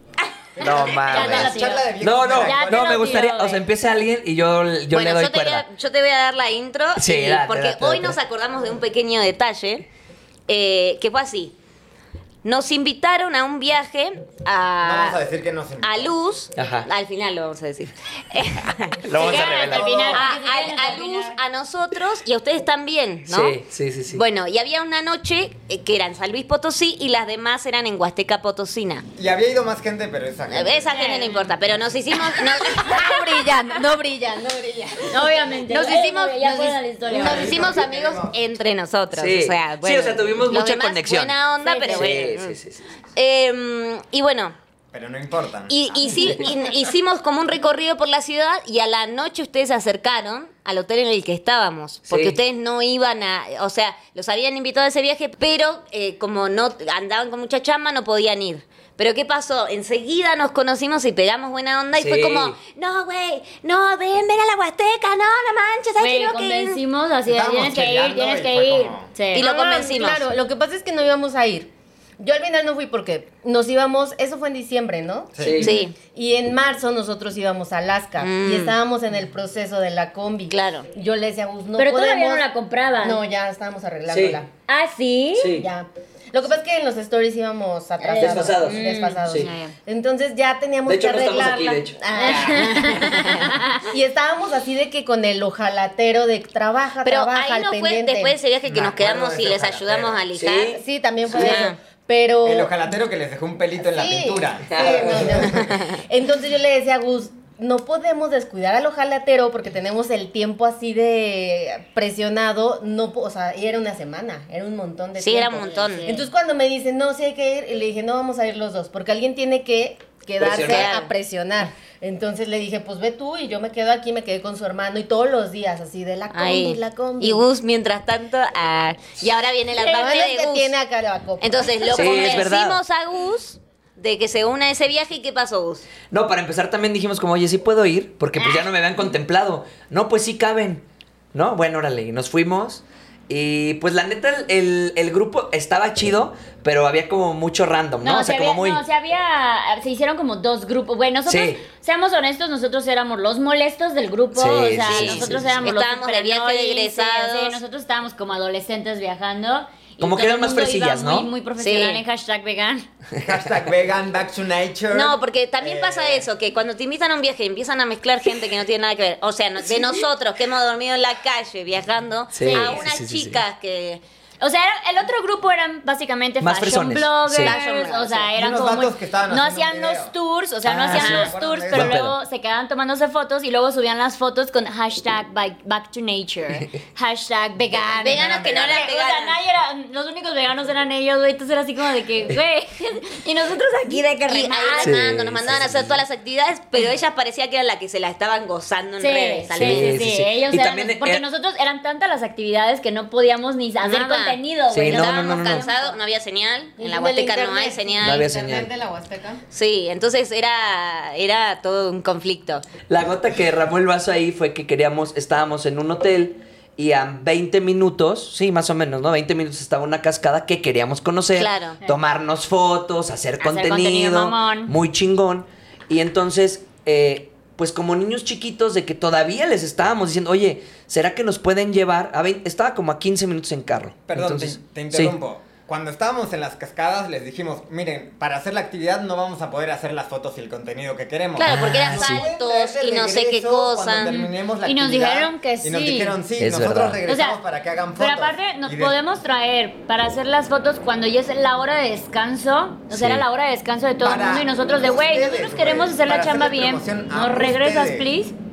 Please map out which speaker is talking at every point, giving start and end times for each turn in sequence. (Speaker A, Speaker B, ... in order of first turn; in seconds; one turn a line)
Speaker A: 0.6-3.2
Speaker B: 0.6-5.7
Speaker C: 1.0-1.9
Speaker C: 2.4-3.6
Speaker D: 4.9-9.9
Speaker B: 7.0-8.2
Speaker D: 10.5-11.6
Speaker D: 12.4-15.2
Speaker A: 14.8-16.1
Speaker D: 15.8-19.0
Speaker B: 16.6-16.9
Speaker B: 19.0-19.9
Speaker A: 19.1-20.4
Speaker C: 19.2-21.4
Speaker D: 20.1-23.6
Speaker B: 23.3-24.2
Speaker D: 24.1-29.1
Speaker A: 29.2-31.0
Speaker D: 30.5-33.9
Speaker E: 31.0-31.5
Speaker E: 32.1-37.8
Speaker C: 35.1-37.7
Speaker D: 35.7-42.6
Speaker A: 37.1-38.4
Speaker B: 39.1-41.3
Speaker C: 41.6-42.1
Speaker B: 41.9-43.0
Speaker D: 43.1-44.6
Speaker A: 44.9-46.4
Speaker D: 45.7-66.8
Speaker B: 52.1-52.4
Speaker B: 62.0-62.6
Speaker C: 66.0-69.5
Speaker A: 67.3-69.2
Speaker D: 69.3-70.2
Speaker E: 69.3-71.7
Speaker E: 72.2-75.5
Speaker A: 75.3-75.7
Speaker B: 75.4-75.8
Speaker D: 75.6-76.0
Speaker E: 76.1-82.5
Speaker D: 78.2-78.8
Speaker D: 80.5-80.9
Speaker C: 81.8-83.2
Speaker E: 83.0-84.5
Speaker B: 84.1-84.4
Speaker C: 84.7-85.6
Speaker B: 85.3-85.7
Speaker E: 85.5-98.4
Speaker C: 88.0-89.7
Speaker B: 88.2-89.5
Speaker B: 90.9-92.8
Speaker C: 92.1-93.9
Speaker D: 93.0-93.2
Speaker D: 97.0-100.8
Speaker A: 98.7-100.2
Speaker B: 100.3-101.5
Speaker E: 100.7-102.8
Speaker D: 101.3-101.8
Speaker A: 102.4-105.8
Speaker E: 103.8-127.4
Speaker B: 104.7-105.4
Speaker D: 105.5-106.0
Speaker D: 115.2-116.1
Speaker C: 115.8-116.3
Speaker B: 120.4-121.0
Speaker D: 120.6-121.1
Speaker D: 126.3-130.7
Speaker E: 129.8-132.1
Speaker D: 131.4-135.9
Speaker B: 131.9-132.8
Speaker B: 136.1-148.8
Speaker C: 138.4-138.7
Speaker C: 148.0-162.9
Speaker B: 151.3-151.6
Speaker B: 154.3-155.4
Speaker D: 154.8-157.6
Speaker B: 160.0-161.3
Speaker D: 161.6-162.0
Speaker A: 163.2-166.3
Speaker D: 164.9-174.0
Speaker B: 172.3-173.4
Speaker C: 172.4-172.8
Speaker C: 174.4-195.0
Speaker B: 176.4-177.6
Speaker D: 177.3-178.3
Speaker A: 178.3-180.1
Speaker B: 180.7-182.2
Speaker A: 180.9-182.0
Speaker A: 187.7-188.9
Speaker D: 188.0-189.4
Speaker D: 193.9-200.0
Speaker B: 194.8-196.0
Speaker C: 199.0-206.0
Speaker B: 199.6-201.2
Speaker D: 203.8-208.2
Speaker B: 204.7-205.7
Speaker E: 206.8-209.4
Speaker B: 208.0-208.7
Speaker D: 209.5-212.7
Speaker B: 212.9-235.2
Speaker D: 221.4-221.8
Speaker C: 223.4-224.7
Speaker A: 234.1-249.0
Speaker D: 241.4-244.1
Speaker B: 241.4-242.3
Speaker C: 244.1-246.2
Speaker B: 246.4-247.0
Speaker C: 247.1-247.4
Speaker C: 248.0-258.4
Speaker B: 252.9-253.2
Speaker A: 254.0-258.1